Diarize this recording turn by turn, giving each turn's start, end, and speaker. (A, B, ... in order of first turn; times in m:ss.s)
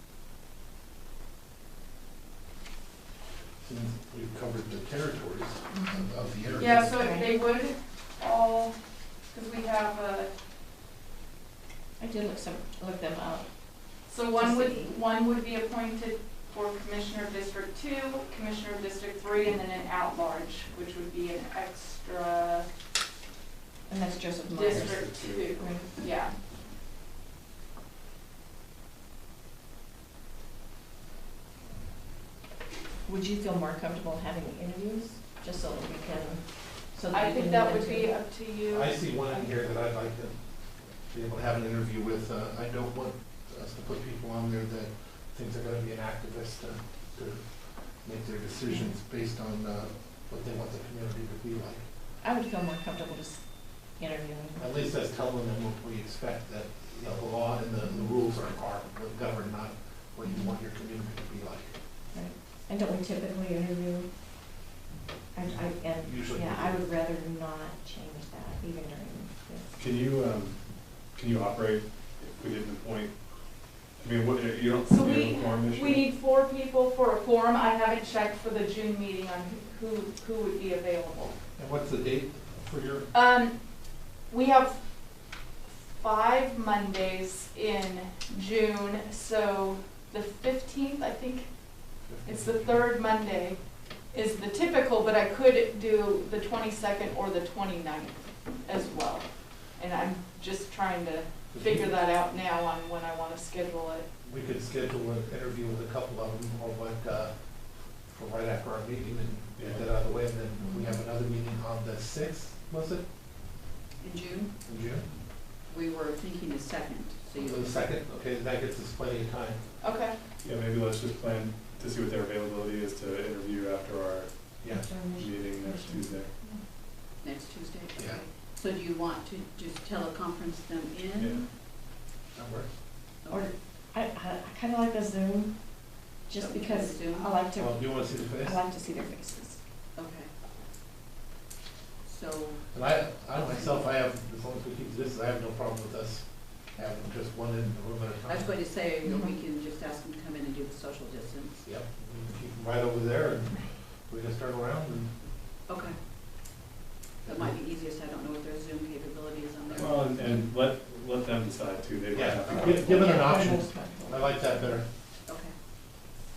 0:03.6-0:06.9 A
0:05.7-0:06.0 B
0:06.6-0:08.7 C
0:06.9-0:07.3 B
0:09.3-0:10.3 C
0:12.0-0:13.4 B
0:14.1-0:22.6 C
0:14.4-0:15.0 B
0:23.9-0:25.0 B
0:24.5-0:26.3 C
0:24.6-0:25.8 D
0:25.6-0:25.9 B
0:33.0-0:38.1 B
0:37.1-0:39.5 C
0:38.7-0:40.4 A
0:41.1-0:47.4 A
0:48.0-0:51.8 A
0:48.7-0:48.9 B
0:52.2-0:53.4 B
0:54.0-0:54.8 B
0:54.6-1:01.7 A
1:00.2-1:00.5 B
1:02.1-1:04.1 B
1:05.3-1:09.7 B
1:05.4-1:06.8 A
1:09.8-1:10.6 D
1:11.1-1:13.1 D
1:14.0-1:16.0 D
1:14.8-1:21.3 C
1:21.6-1:23.1 A
1:23.1-1:23.5 C
1:24.3-1:24.8 C
1:26.0-1:31.5 C
1:32.1-1:32.7 A
1:32.2-1:33.6 C
1:34.1-1:39.2 C
1:39.8-1:44.1 C
1:41.5-1:41.9 A
1:44.2-1:47.3 A
1:48.1-1:53.0 A
1:49.6-1:49.9 D
1:50.6-1:51.0 B
1:54.0-1:54.5 E
1:54.6-1:55.0 A
1:55.7-1:57.8 E
1:57.3-1:59.6 A
1:59.8-2:00.1 C
2:00.4-2:04.3 D
2:04.6-2:04.9 A
2:04.7-2:06.6 B
2:05.1-2:06.3 D
2:07.2-2:11.4 E
2:08.0-2:08.2 A
2:11.2-2:11.4 D
2:12.3-2:12.7 A
2:13.2-2:13.5 E
2:13.3-2:15.5 B
2:16.3-2:19.6 B
2:16.3-2:17.3 E
2:17.6-2:18.6 A
2:20.0-2:20.3 E
2:22.0-2:22.6 E
2:22.7-2:28.5 A
2:23.3-2:23.9 E
2:28.2-2:31.6 E
2:29.0-2:29.4 B
2:31.6-2:35.1 A
2:35.7-2:36.0 E
2:37.2-2:40.2 E
2:37.3-2:37.5 A
2:39.7-2:43.1 D
2:42.1-2:44.8 A
2:42.6-2:44.7 B
2:45.3-2:45.5 E